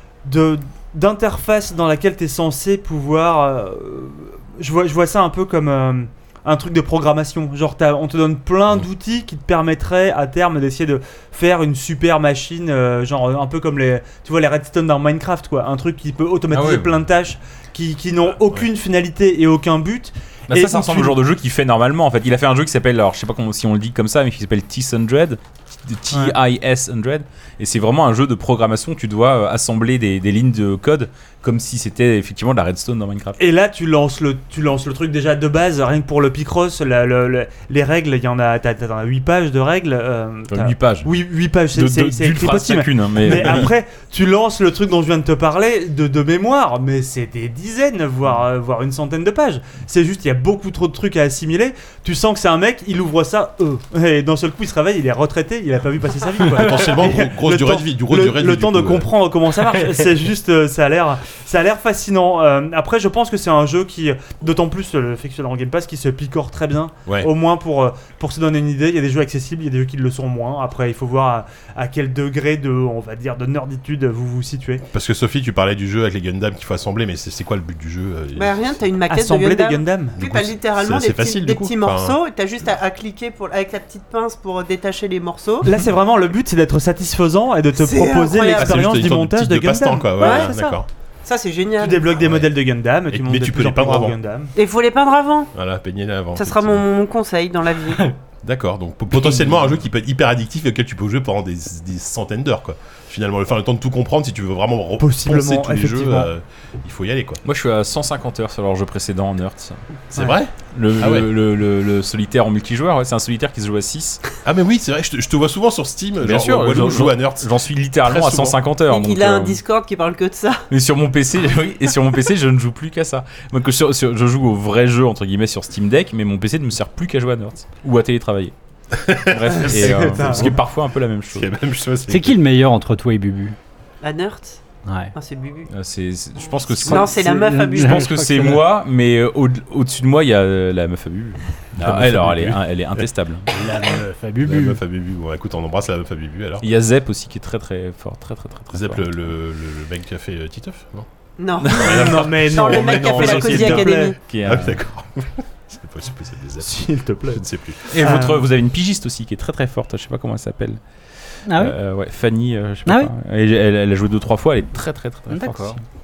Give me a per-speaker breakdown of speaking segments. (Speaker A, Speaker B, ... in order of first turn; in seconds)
Speaker A: 0.2-21.2, 33.4-74.8, 79.1-80.2, 85.6-90.5, 91.8-94.5, 105.0-106.3, 129.5-130.6, 151.9-154.2, 156.6-157.4, 158.0-158.4
Speaker B: 16.5-17.0, 20.5-33.4, 40.5-41.2, 41.7-43.7, 107.4-109.8, 110.7-114.2, 116.2-119.6, 120.7-128.5, 129.2-131.5, 135.7-143.5, 146.6-149.2, 151.6-152.2, 152.7-154.8, 157.9-160.8, 161.5-165.8
Speaker C: 56.4-59.1, 67.0-67.3, 74.9-78.8, 80.2-82.2, 88.5-90.9, 93.1-94.2, 95.5-96.8, 98.4-107.4, 110.1-111.3, 114.4-118.6, 128.9-130.6, 131.3-132.4, 143.6-146.7, 148.7-151.1, 151.7-153.6, 154.4-156.8, 157.3-157.9
Speaker D: 78.3-85.7, 87.8-88.9, 90.2-92.2, 94.5-95.5, 96.3-98.1, 118.9-120.6, 134.0-134.6, 135.1-135.7, 136.7-138.1, 151.4-154.2
Speaker E: 132.1-133.6, 134.8-135.1, 136.9-138.7, 141.8-142.6, 143.5-144.8, 161.5-161.8, 162.8-163.1, 165.3-165.8